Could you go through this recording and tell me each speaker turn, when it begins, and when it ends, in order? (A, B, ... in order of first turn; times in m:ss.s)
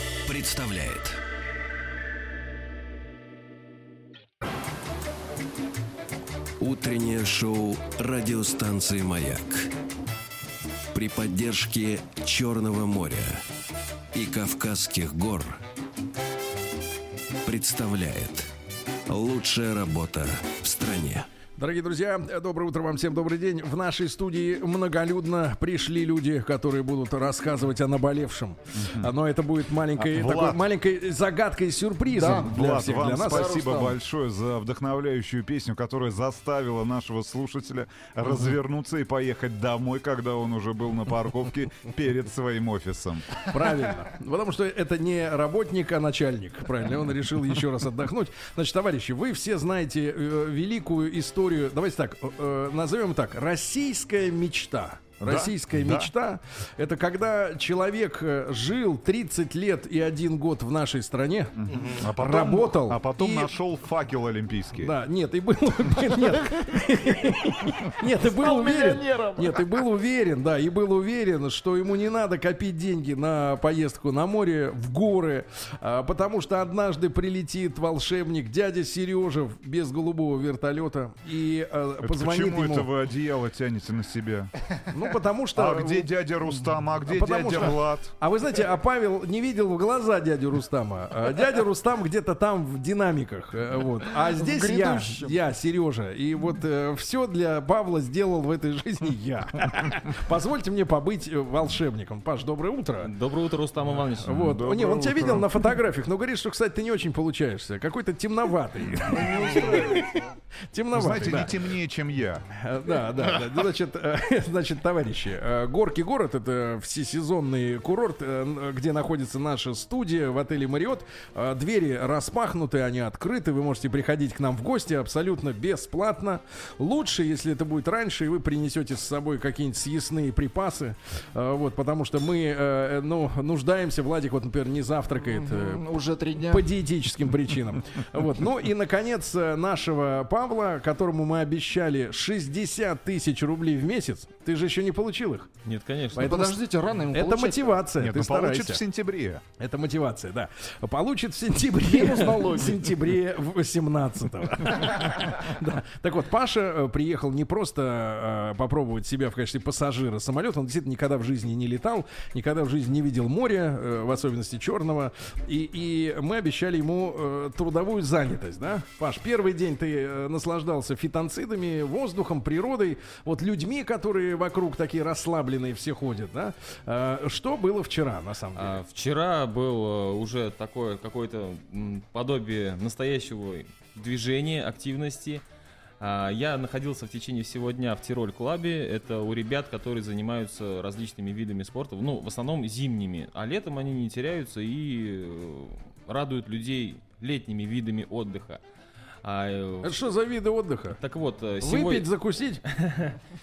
0:00.2-0:01.2 A
0:06.6-0:09.7 A
0:10.9-0:13.4 A
0:14.1-0:15.6 A
0:17.4-0:18.5 A
0:19.1-0:21.3 A
0:21.6-0:33.6 B
0:28.8-0:29.1 C
0:30.0-0:30.7 C
0:32.1-0:32.6 D
0:32.4-0:43.3 C
0:33.2-0:34.0 D
0:43.4-1:03.5 B
0:55.2-0:56.1 C
1:01.6-1:04.9 C
1:04.8-1:22.9 B
1:08.2-1:09.7 D
1:22.0-1:24.5 C
1:24.9-1:26.1 B
1:25.5-1:28.1 C
1:27.0-1:43.1 B
1:34.2-1:35.4 D
1:43.0-1:44.5 E
1:44.2-1:51.6 B
1:44.3-1:45.5 C
1:49.1-1:50.0 D
1:50.9-1:52.4 C
1:52.5-2:15.9 B
2:15.2-2:16.7 D
2:16.4-2:25.5 B
2:25.6-2:26.3 E
2:26.1-2:28.8 B
2:26.2-2:27.8 D
2:27.9-2:29.4 C
2:29.6-2:58.8 B
2:31.8-2:32.9 D
2:58.5-3:05.4 E
3:06.0-3:18.6 E
3:19.2-3:19.9 E
3:19.8-3:21.0 B
3:21.0-3:22.1 E
3:21.6-3:22.6 B
3:22.7-3:23.2 E